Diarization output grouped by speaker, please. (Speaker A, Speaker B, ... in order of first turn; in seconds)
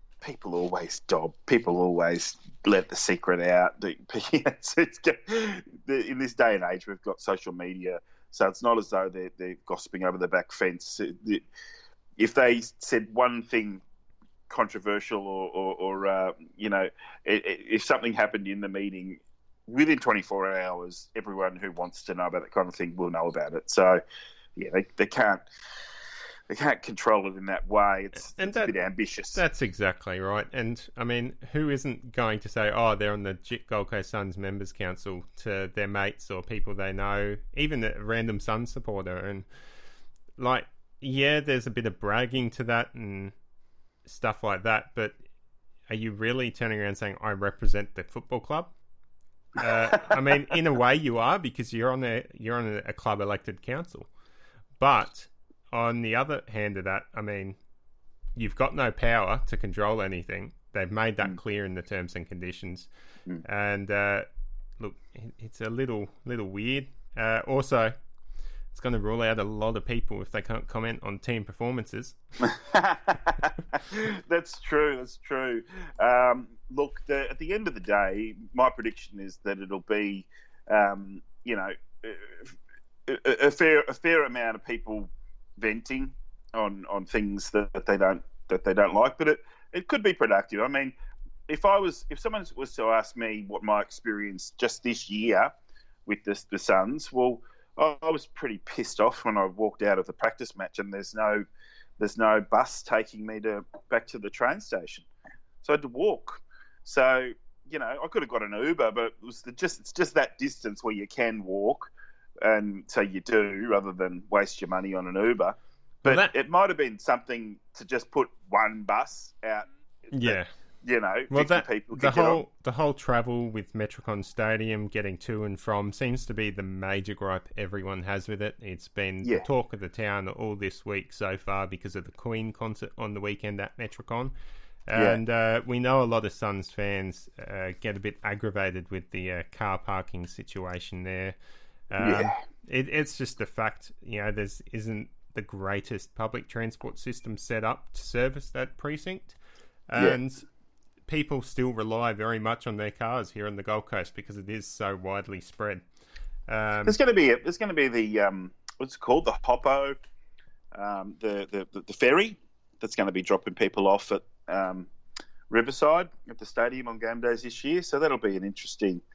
Speaker A: 0.2-11.4, 12.2-13.8, 14.5-24.0, 24.6-25.4, 26.5-29.4, 72.5-82.5, 83.1-90.9, 91.5-95.5, 96.1-101.5, 102.0-105.1, 105.6-111.9, 112.4-122.4, 134.9-135.2, 142.0-142.4, 156.9-160.0, 160.8-164.9, 165.5-169.0
Speaker B: 28.3-28.7, 29.3-39.5, 40.4-43.3, 44.1-45.1, 45.9-48.7, 49.6-54.1, 54.8-57.6, 58.4-62.9, 63.4-64.3, 64.8-67.9, 68.7-72.2, 116.0-116.3, 120.1-120.5, 121.3-134.3, 134.9-141.4, 141.9-149.4, 149.9-150.4, 151.1-155.8, 156.5-157.0